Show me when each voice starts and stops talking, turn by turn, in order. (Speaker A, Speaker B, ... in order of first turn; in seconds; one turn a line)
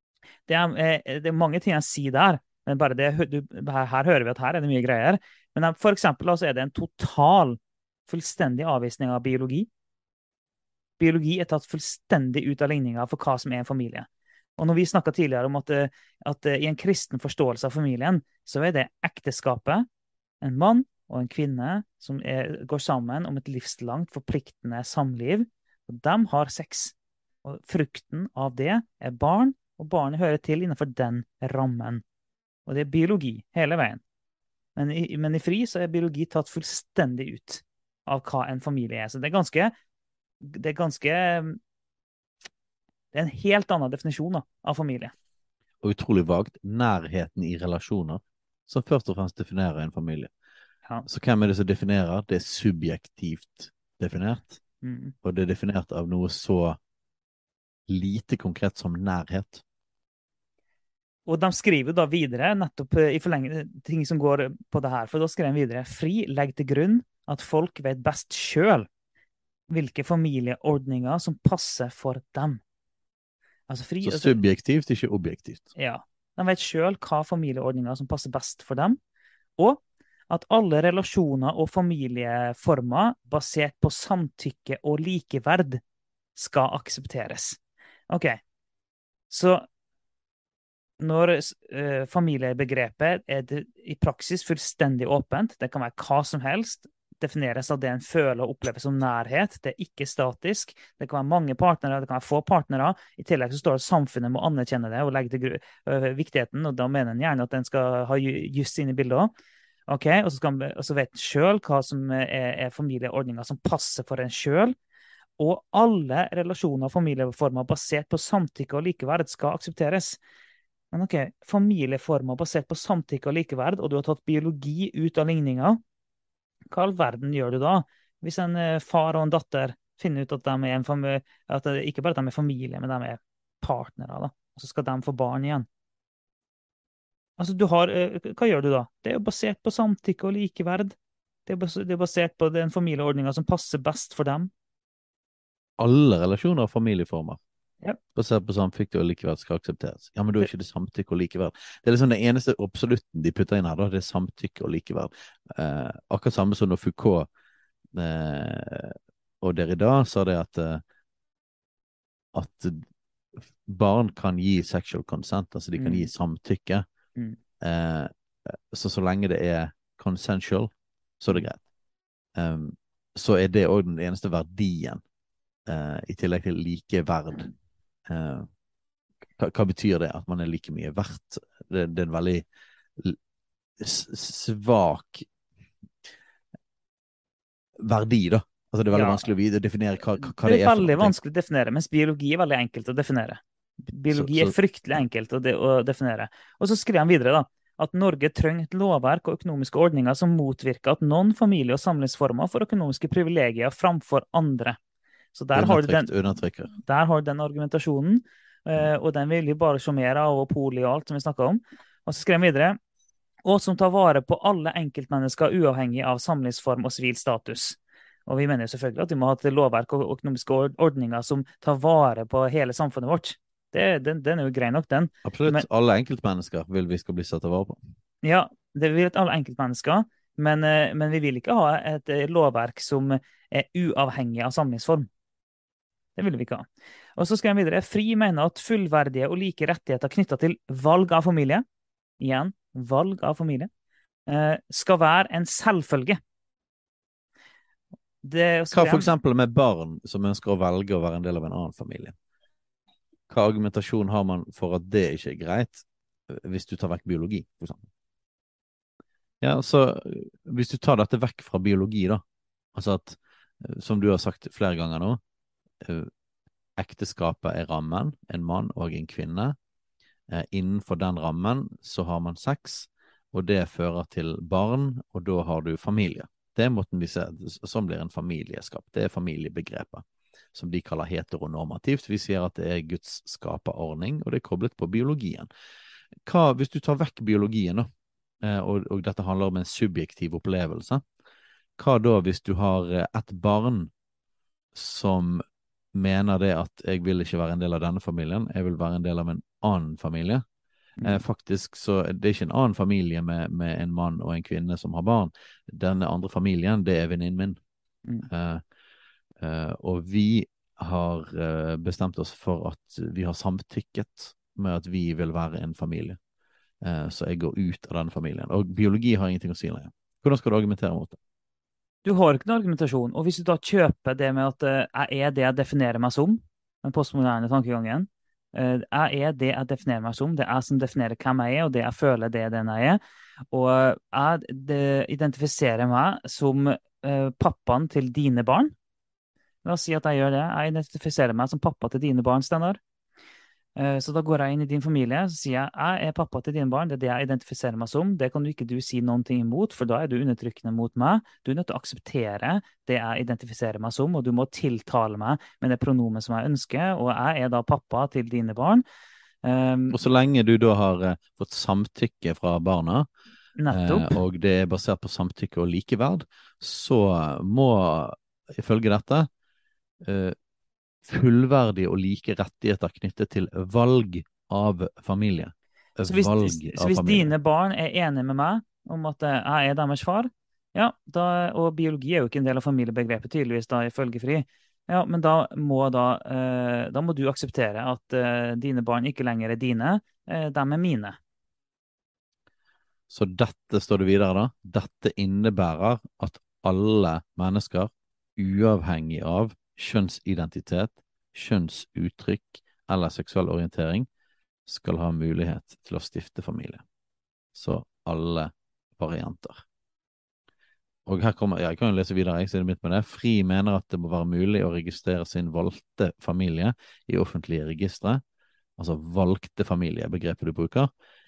Speaker A: 0.5-9.7
Speaker A: 11.0-19.9
Speaker A: 20.4-32.0
Speaker A: 32.6-34.0
Speaker A: 34.8-39.7
Speaker A: 40.4-41.6
Speaker A: 43.1-45.1
Speaker B: 45.8-50.3
Speaker B: 51.0-54.6
Speaker A: 54.8-55.1
Speaker B: 55.2-56.8
Speaker B: 57.9-59.6
Speaker A: 61.3-68.9
Speaker A: 69.7-72.6
Speaker A: 73.7-74.4
Speaker B: 74.0-75.7
Speaker A: 75.8-79.0
Speaker A: 79.6-85.8
Speaker A: 86.3-87.6
Speaker A: 88.1-88.4
Speaker A: 89.3-89.6
Speaker A: 91.0-109.3
Speaker A: 109.9-114.7
Speaker A: 115.4-120.2
Speaker A: 120.9-125.8
Speaker A: 126.7-135.7
Speaker A: 137.4-140.9
Speaker A: 141.4-144.5
Speaker B: 145.8-147.4
Speaker B: 148.1-157.3
Speaker B: 157.9-160.8
Speaker B: 162.3-162.8
Speaker B: 163.4-166.8
Speaker A: 165.8-166.1
Speaker B: 167.6-171.6
Speaker B: 172.3-175.0
Speaker B: 175.7-177.5
Speaker B: 178.1-178.5
Speaker B: 179.4-182.4
Speaker B: 183.8-185.3
Speaker B: 187.8-191.1
Speaker A: 188.9-189.3
Speaker A: 190.3-204.8
Speaker B: 194.1-194.5
Speaker A: 205.3-206.1
Speaker B: 205.5-206.7
Speaker A: 206.7-212.8
Speaker A: 213.4-225.7
Speaker B: 225.2-227.8
Speaker A: 228.2-235.1
Speaker A: 236.2-241.6
Speaker A: 242.2-243.7
Speaker A: 244.3-246.2
Speaker A: 248.2-249.1
Speaker B: 248.7-252.1
Speaker B: 253.3-257.9
Speaker B: 259.4-262.2
Speaker B: 262.7-265.2
Speaker B: 265.8-266.1
Speaker B: 266.8-269.6
Speaker B: 270.3-285.5
Speaker B: 286.2-287.9
Speaker B: 288.4-291.0
Speaker B: 291.8-293.9
Speaker B: 294.7-295.4
Speaker B: 295.9-300.4
Speaker B: 301.0-307.6
Speaker B: 308.3-308.6
Speaker B: 309.4-316.2
Speaker B: 316.8-321.2
Speaker A: 322.0-333.0
Speaker A: 333.5-338.7
Speaker A: 339.6-342.8
Speaker A: 343.8-358.8
Speaker A: 359.4-360.0
Speaker B: 359.9-363.1
Speaker A: 363.6-364.2
Speaker B: 363.7-369.3
Speaker B: 370.0-370.3
Speaker B: 371.0-377.3
Speaker A: 376.0-391.2
Speaker B: 393.1-404.1
Speaker B: 404.6-406.8
Speaker B: 407.5-409.6
Speaker B: 411.1-418.2
Speaker B: 418.8-420.9